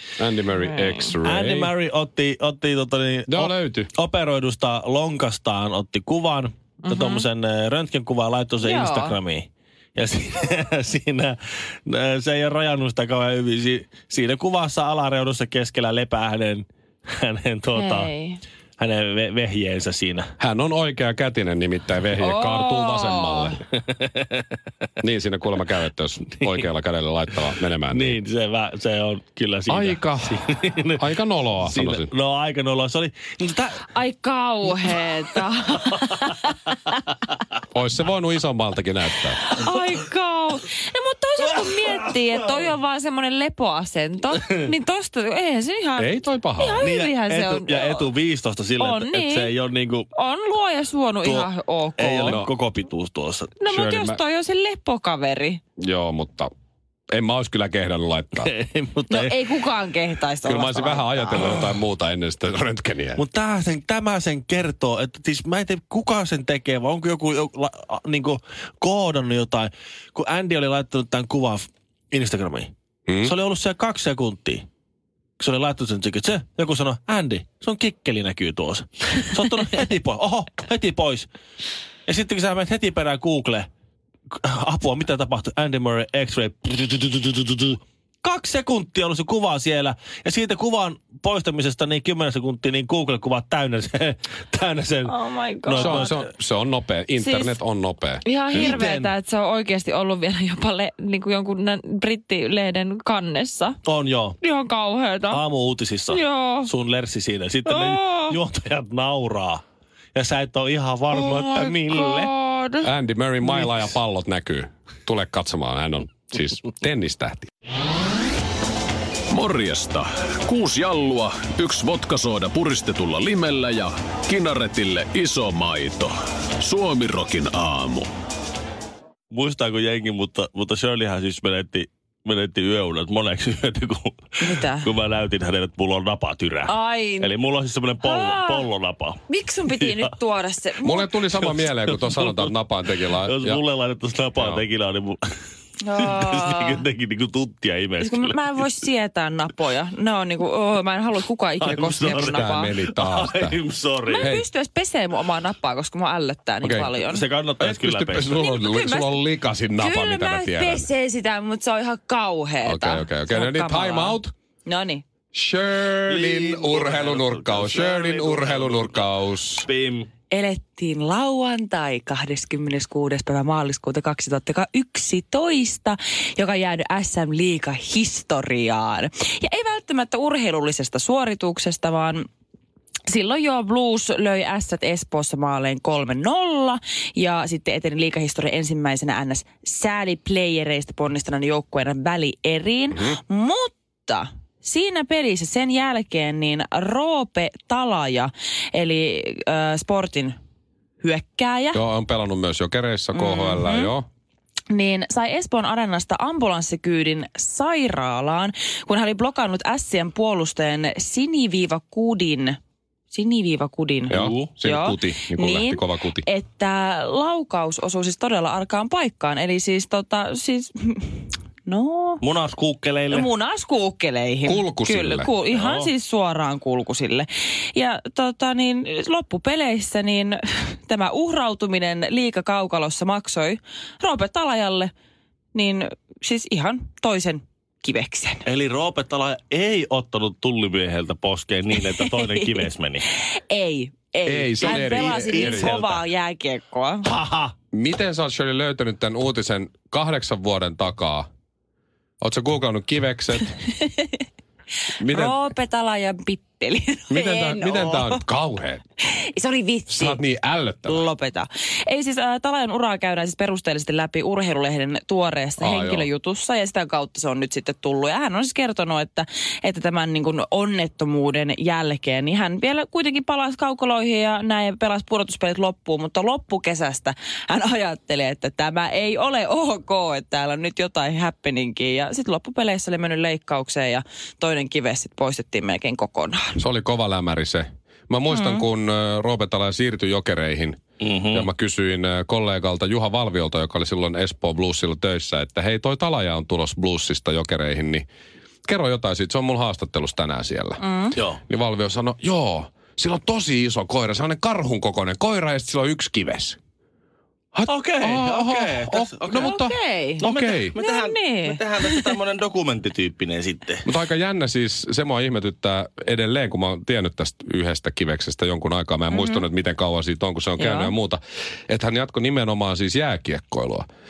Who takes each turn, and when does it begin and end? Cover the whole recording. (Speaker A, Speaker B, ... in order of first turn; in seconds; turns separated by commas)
Speaker A: 0.2-1.7, Speaker B: 0.7-1.1, Speaker C: 1.2-18.1, Speaker A: 3.3-3.9, Speaker B: 6.9-7.2, Speaker B: 8.6-9.2, Speaker B: 17.8-18.4, Speaker C: 18.8-20.3, Speaker A: 20.4-23.6, Speaker B: 22.2-23.6, Speaker C: 23.9-24.4, Speaker A: 25.0-28.2, Speaker C: 27.7-33.8, Speaker A: 29.7-30.4, Speaker A: 31.0-32.1, Speaker B: 33.8-36.7, Speaker A: 37.7-39.4, Speaker B: 39.4-48.1, Speaker C: 41.5-42.0, Speaker A: 46.0-46.8, Speaker C: 46.8-50.1, Speaker B: 48.8-49.5, Speaker B: 50.1-52.4, Speaker C: 51.2-53.5, Speaker A: 52.2-52.5, Speaker B: 53.6-55.6, Speaker A: 53.7-54.2, Speaker A: 55.8-56.5, Speaker A: 57.1-58.5, Speaker C: 58.4-59.4, Speaker B: 59.1-61.4, Speaker A: 60.5-63.2, Speaker C: 63.2-74.7, Speaker A: 73.1-73.3, Speaker C: 75.4-81.3, Speaker C: 82.1-83.7, Speaker C: 84.3-96.2, Speaker B: 95.1-96.1, Speaker A: 95.7-98.8, Speaker B: 97.2-97.6, Speaker B: 98.2-103.8, Speaker C: 98.5-99.1, Speaker C: 103.8-104.4, Speaker B: 104.4-105.4, Speaker C: 105.3-109.6, Speaker B: 106.1-106.7, Speaker B: 107.7-108.4, Speaker C: 110.2-112.3, Speaker B: 111.2-112.9, Speaker A: 112.8-117.5, Speaker D: 119.3-128.1, Speaker C: 129.3-139.2, Speaker B: 134.4-134.9, Speaker B: 136.7-137.3, Speaker B: 138.0-138.7, Speaker B: 139.3-141.1, Speaker A: 140.8-143.6, Speaker C: 141.4-142.5, Speaker C: 143.2-145.2, Speaker A: 144.4-144.7, Speaker B: 145.8-146.8, Speaker C: 145.9-148.7, Speaker B: 148.0-152.7, Speaker C: 151.6-154.3, Speaker A: 152.2-153.6, Speaker B: 154.1-157.2, Speaker A: 156.6-156.9, Speaker C: 157.1-158.3, Speaker A: 157.6-160.9, Speaker B: 158.3-159.2, Speaker B: 159.8-165.0, Speaker A: 162.6-164.3, Speaker A: 165.3-169.7, Speaker C: 166.1-170.1, Speaker B: 170.3-182.3, Speaker B: 183.1-200.3, Speaker B: 201.0-201.8, Speaker A: 201.7-204.1, Speaker B: 203.1-203.9, Speaker B: 204.7-212.6, Speaker B: 213.1-222.2, Speaker C: 214.1-214.5, Speaker A: 214.1-216.2, Speaker C: 222.2-223.3, Speaker B: 223.1-234.9, Speaker A: 224.5-225.3, Speaker C: 225.5-225.9, Speaker B: 235.5-238.5, Speaker C: 238.4-243.1, Speaker B: 241.9-242.3, Speaker B: 243.2-247.1, Speaker A: 244.3-245.8, Speaker C: 244.6-246.0, Speaker C: 247.1-247.5, Speaker A: 247.7-251.3, Speaker A: 252.2-253.6, Speaker B: 253.7-254.2, Speaker A: 255.0-255.4, Speaker B: 255.0-258.2, Speaker A: 257.1-258.8, Speaker B: 259.0-260.2, Speaker A: 259.9-261.0, Speaker B: 260.9-286.6, Speaker A: 265.6-266.1, Speaker A: 286.6-298.1, Speaker B: 288.3-288.6, Speaker C: 291.0-291.5, Speaker A: 298.7-300.8, Speaker B: 300.8-301.2, Speaker A: 301.5-306.6, Speaker A: 307.5-310.7, Speaker C: 307.7-309.6, Speaker B: 309.4-310.2, Speaker C: 310.2-313.9, Speaker B: 310.8-312.1, Speaker A: 313.9-323.9, Speaker B: 319.1-319.4, Speaker B: 320.6-320.9